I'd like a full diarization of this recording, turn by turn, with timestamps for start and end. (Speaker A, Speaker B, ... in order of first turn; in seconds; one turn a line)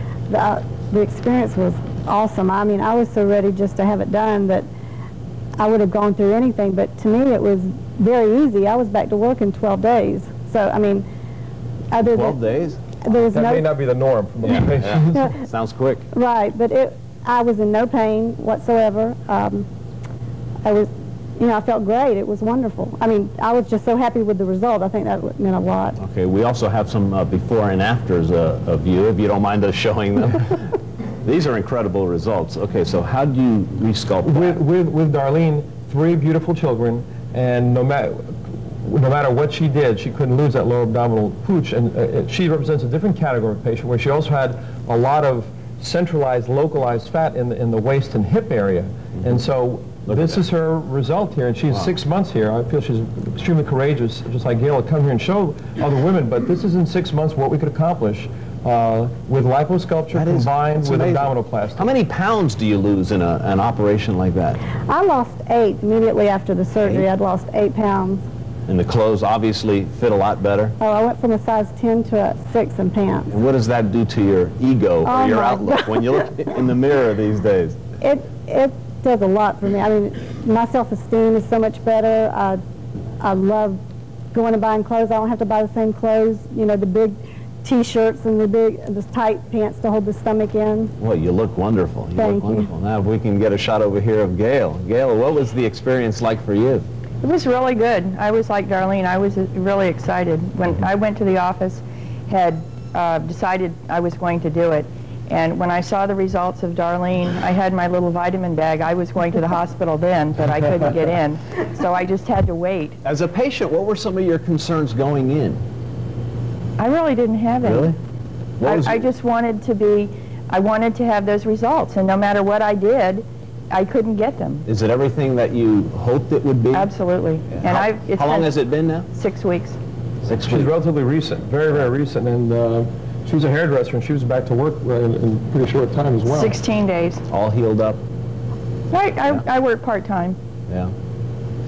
Speaker A: 0.3-4.7
Speaker A: 5.6-11.1
Speaker A: 11.9-12.4
Speaker B: 12.1-12.8
Speaker A: 13.0-13.7
Speaker C: 13.3-15.3
Speaker B: 14.5-16.1
Speaker A: 16.1-19.7
Speaker A: 20.6-26.0
Speaker B: 26.0-30.7
Speaker B: 31.2-34.6
Speaker C: 34.2-38.3
Speaker C: 38.8-61.9
Speaker B: 60.1-64.6
Speaker A: 64.9-68.2
Speaker B: 66.8-67.1
Speaker B: 68.7-70.8
Speaker A: 70.8-73.3
Speaker B: 73.3-77.8
Speaker A: 75.0-76.2
Speaker A: 78.0-82.6
Speaker A: 83.2-83.8
Speaker A: 84.3-90.9
Speaker B: 91.0-96.8
Speaker A: 92.2-92.7
Speaker D: 97.2-113.0
Speaker B: 113.0-115.6
Speaker D: 116.8-117.9
Speaker B: 117.6-118.0
Speaker B: 118.6-119.0
Speaker D: 118.6-124.6
Speaker B: 124.7-126.9
Speaker D: 126.7-128.5
Speaker B: 127.6-129.1
Speaker D: 129.1-129.8
Speaker B: 130.2-130.7
Speaker C: 130.5-136.6
Speaker D: 136.3-137.2
Speaker B: 137.3-138.0
Speaker D: 138.9-140.4